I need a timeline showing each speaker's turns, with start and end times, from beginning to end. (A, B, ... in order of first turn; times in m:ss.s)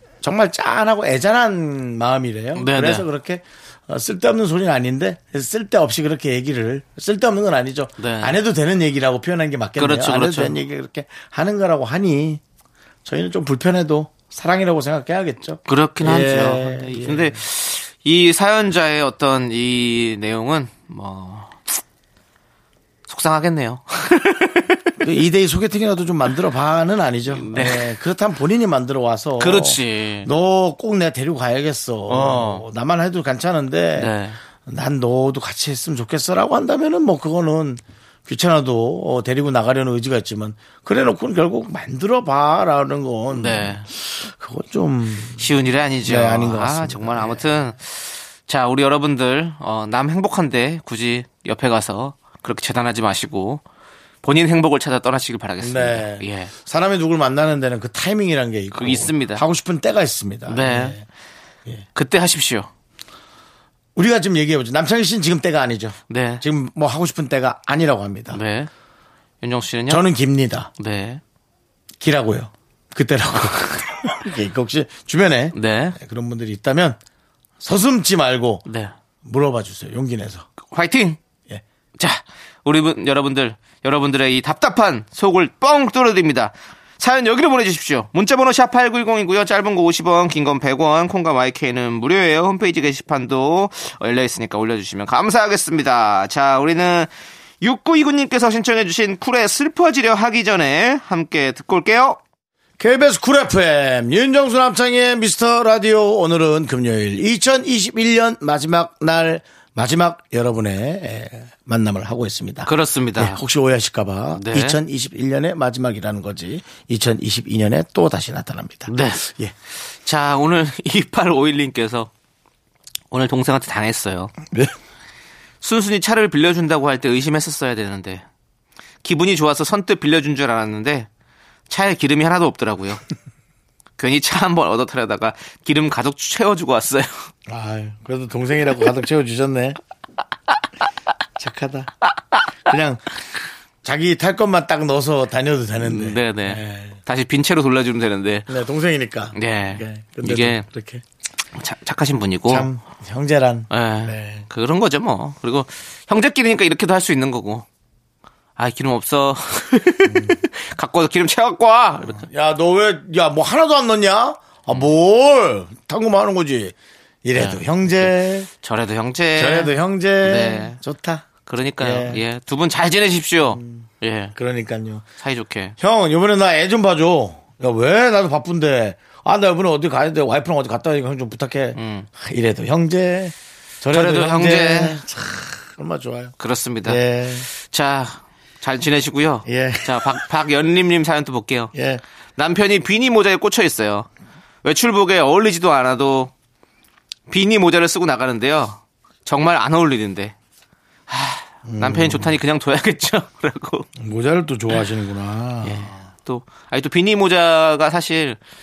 0:00.2-0:12.4 A
0:02.6-0:03.0 B
0:08.0-0:08.4 B
0:09.8-0:10.6 B
0:13.0-0:17.4 A
0:15.7-0:21.6 B
0:23.1-0:24.9 B
0:25.0-0:34.1 A
0:27.3-0:27.9 B
0:29.4-0:30.3 B
0:32.1-0:32.6 B
0:34.0-0:34.4 B
0:34.6-0:45.5 A
0:43.3-0:43.9 B
0:45.4-0:53.6 B
0:46.0-0:47.6 A
0:54.2-0:56.5 B
0:55.6-1:01.0 A
0:58.7-0:59.4 B
1:00.5-1:01.0 B
1:01.9-1:02.7 B
1:04.0-1:08.4 A
1:06.1-1:06.4 B
1:08.3-1:08.7 B
1:09.4-1:10.1 B
1:09.9-1:10.7 A
1:10.8-1:11.2 B
1:12.0-1:17.0 A
1:15.5-1:16.0 B
1:17.6-1:18.6 A
1:18.6-1:18.9 B
1:19.2-1:20.5 A
1:20.7-1:21.2 B
1:22.0-1:37.1 B
1:37.6-1:42.2 B
1:42.8-1:59.5 A
1:52.6-1:53.4 B
1:54.3-1:54.8 B
1:58.9-1:59.3 B
2:00.0-2:02.1 B
2:03.1-2:04.3 B
2:05.6-2:08.2 B
2:09.0-2:11.1 B
2:11.7-2:13.0 B
2:14.0-2:17.3 B
2:17.5-2:19.8 A
2:21.4-2:21.9 A
2:22.6-2:23.0 A
2:23.8-2:27.0 A
2:25.8-2:28.5 B
2:28.5-2:31.0 A
2:29.3-2:30.6 B
2:31.5-2:32.7 B
2:32.5-2:34.4 A
2:33.7-2:37.6 B
2:38.6-2:42.3 B
2:40.0-2:40.4 A
2:42.0-2:48.5 A
2:47.3-2:50.8 B
2:49.4-2:51.3 A
2:51.4-2:54.3 B
2:51.8-2:52.2 A
2:53.5-2:55.0 A
2:55.2-2:55.8 B
2:55.8-3:07.5 A
3:01.7-3:02.1 B
3:03.9-3:05.0 B
3:06.4-3:11.7 B
3:09.4-3:10.2 A
3:11.7-3:12.0 A
3:12.4-3:14.1 B
3:14.6-3:16.3 B
3:17.3-3:20.3 B
3:21.1-3:23.9 B
3:21.6-3:22.3 A
3:24.0-3:25.9 A
3:25.6-3:28.4 B